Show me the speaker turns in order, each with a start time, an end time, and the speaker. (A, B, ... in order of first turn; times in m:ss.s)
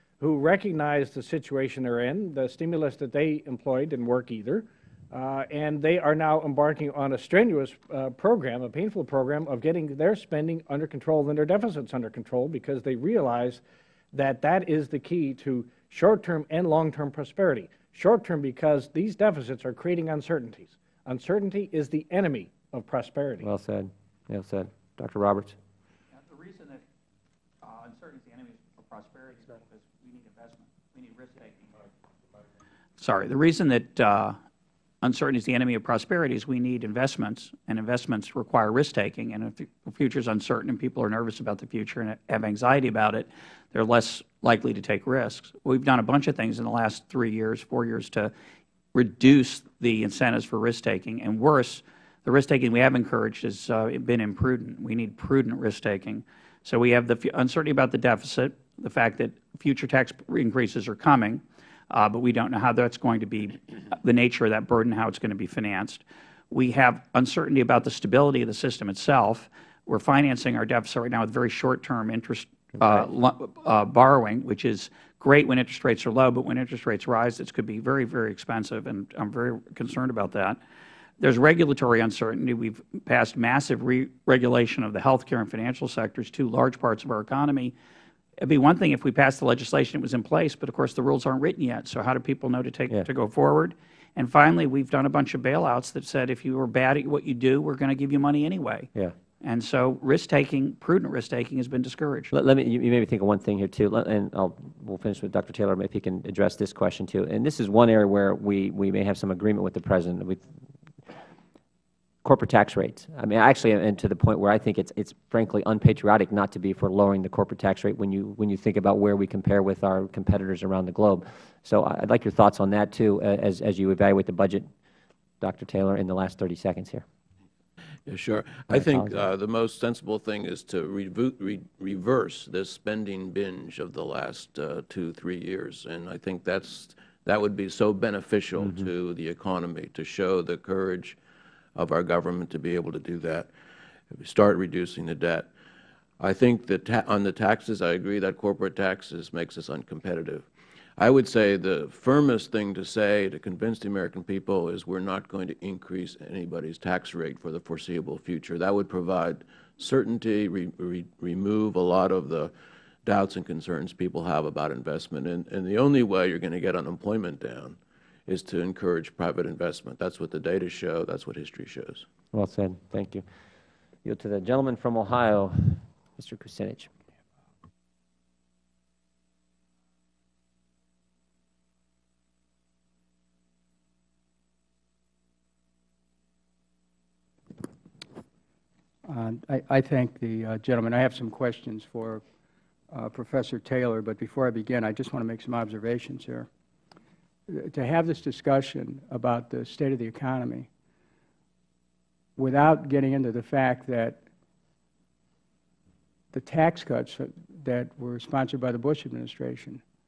0:00.2-0:13.6 A
0:14.1-0:23.4 A
0:23.4-0:25.6 B
0:26.1-0:26.8 C
0:27.6-0:31.8 C
0:33.0-0:34.4 C
0:35.0-0:48.3 C
0:48.9-1:20.6 C
1:21.2-1:27.7 C
1:28.4-1:38.9 C
1:39.4-1:42.3 C
1:42.3-1:50.4 B
1:52.2-2:04.7 B
2:05.4-2:07.0 B
2:08.1-2:21.2 D
2:08.7-2:09.2 B
2:18.6-2:18.9 B
2:21.8-2:23.5 D
2:24.1-2:25.5 D
2:26.2-2:30.5 D
2:31.0-2:42.5 D
2:43.0-2:52.1 D
2:52.3-2:53.2 B
2:54.0-2:56.9 B
3:09.1-3:12.2 E
3:12.9-3:16.5 E
3:17.5-3:20.7 E
3:22.4-3:24.2 E
3:26.3-3:29.8 E